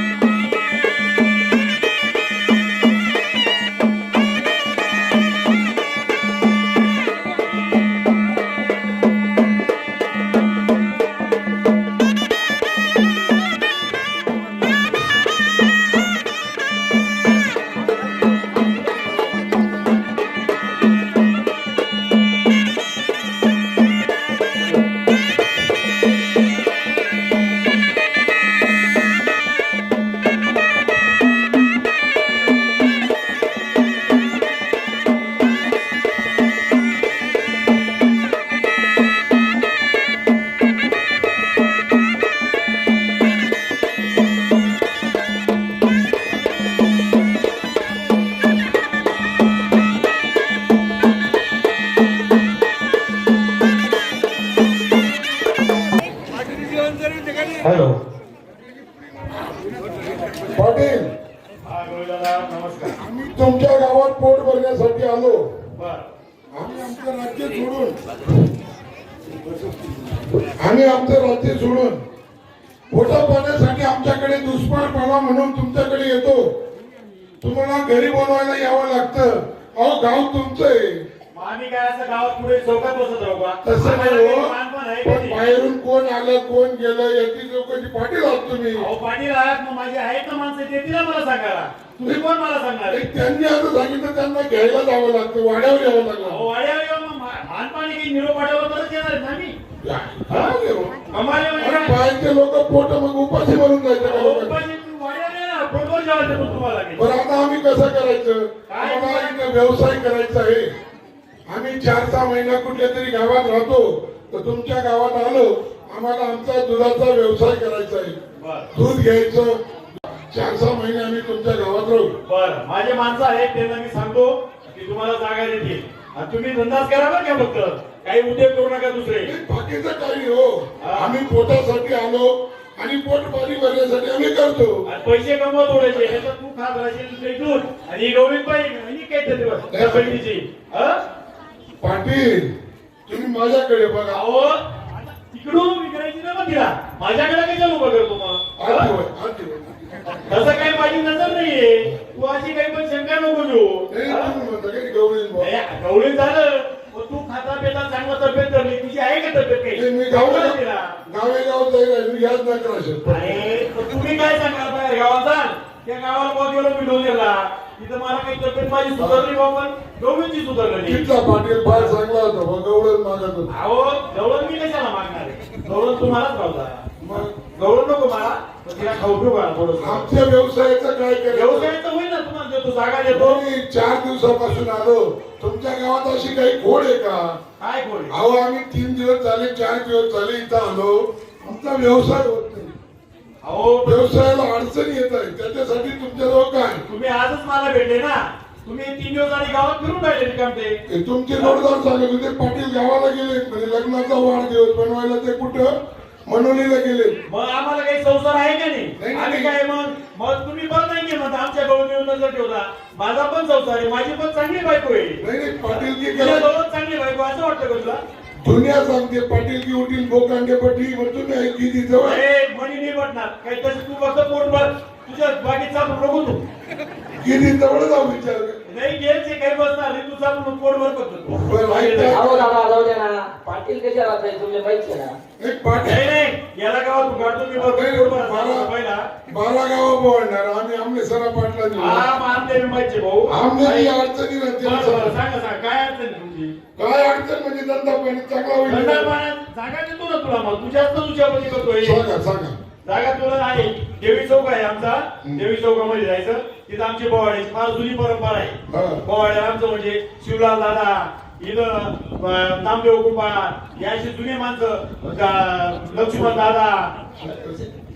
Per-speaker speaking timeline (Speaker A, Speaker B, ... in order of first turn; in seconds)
Speaker A: 57.6-58.0, 61.6-63.0, 65.8-66.1, 81.3-85.4, 88.8-93.0, 96.2-99.6, 100.3-100.5, 101.1-102.0, 104.0-107.1, 108.7-109.4, 118.4-118.7, 122.2-129.3, 130.8-131.2, 134.9-141.0, 144.1-144.6, 145.3-148.9, 150.1-154.3, 155.4-160.9, 163.1-171.1, 171.7-171.9, 173.5-180.1, 181.3-183.4, 187.6-188.1, 193.4-194.1, 196.9-200.8, 207.3-218.0, 222.0-226.4, 228.7-232.2, 235.8-239.1, 241.8-244.0, 244.6-246.6, 248.7-252.1, 252.8-267.0
Speaker B: 60.5-61.1, 63.0-65.5, 66.5-68.0, 70.6-72.0, 72.9-76.5, 77.4-81.0, 83.6-88.9, 92.9-96.5, 99.8-104.6, 107.0-110.7, 111.5-118.2, 118.7-119.6, 120.3-122.2, 129.2-134.8, 139.7-140.2, 141.8-142.5, 143.1-144.2, 148.6-149.7, 153.9-155.5, 159.8-163.4, 169.0-169.3, 170.8-173.5, 177.0-177.3, 179.8-181.7, 183.1-187.4, 188.1-192.8, 193.8-196.9, 200.9-205.8, 206.3-207.2, 209.0-209.6, 215.2-216.5, 218.4-222.2, 227.2-228.6, 231.4-232.6, 235.4-236.1, 237.6-238.7, 239.3-242.1, 243.3-245.2, 246.8-249.1, 251.8-252.6, 258.7-259.0, 267.2-267.7
Speaker C: 232.1-235.2